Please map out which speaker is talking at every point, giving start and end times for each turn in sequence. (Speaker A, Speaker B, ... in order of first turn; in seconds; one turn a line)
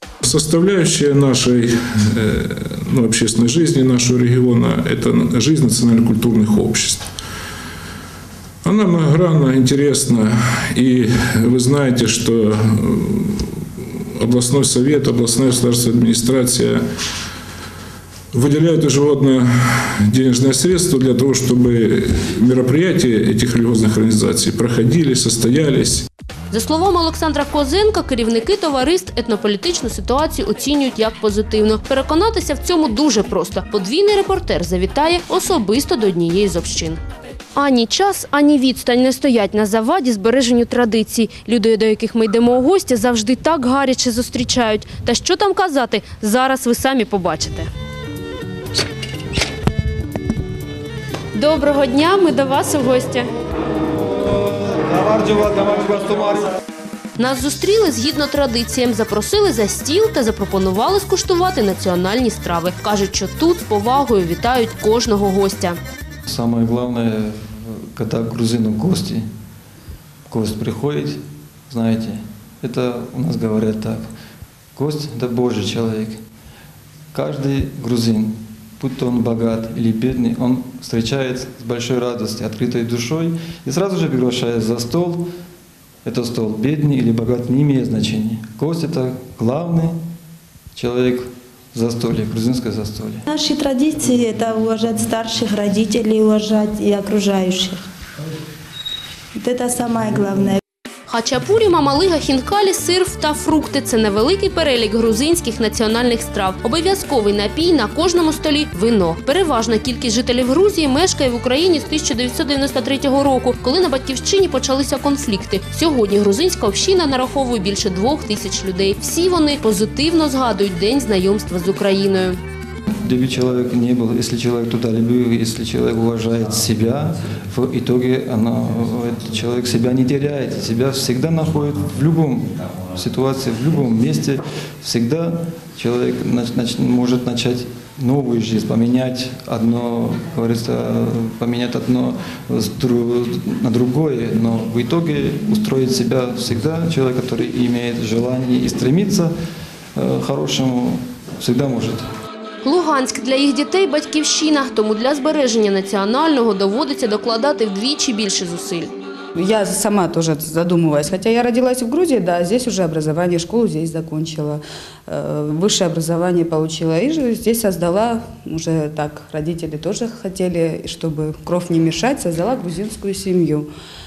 Speaker A: 0.2-7.0
Speaker A: 8.6-16.8
Speaker A: 18.3-26.1
Speaker B: 26.5-37.0
Speaker B: 37.5-47.7
Speaker B: 51.3-53.3
Speaker C: 54.5-56.5
Speaker B: 57.2-65.8
Speaker C: 66.3-69.2
Speaker C: 70.3-74.0
Speaker C: 74.8-76.2
Speaker C: 77.1-85.3
Speaker C: 86.0-90.0
Speaker C: 90.7-93.2
Speaker D: 93.3-97.8
Speaker D: 99.4-100.6
Speaker B: 101.1-122.4
Speaker C: 123.0-149.3
Speaker C: 149.9-152.1
Speaker B: 152.6-158.9
Speaker E: 159.3-173.7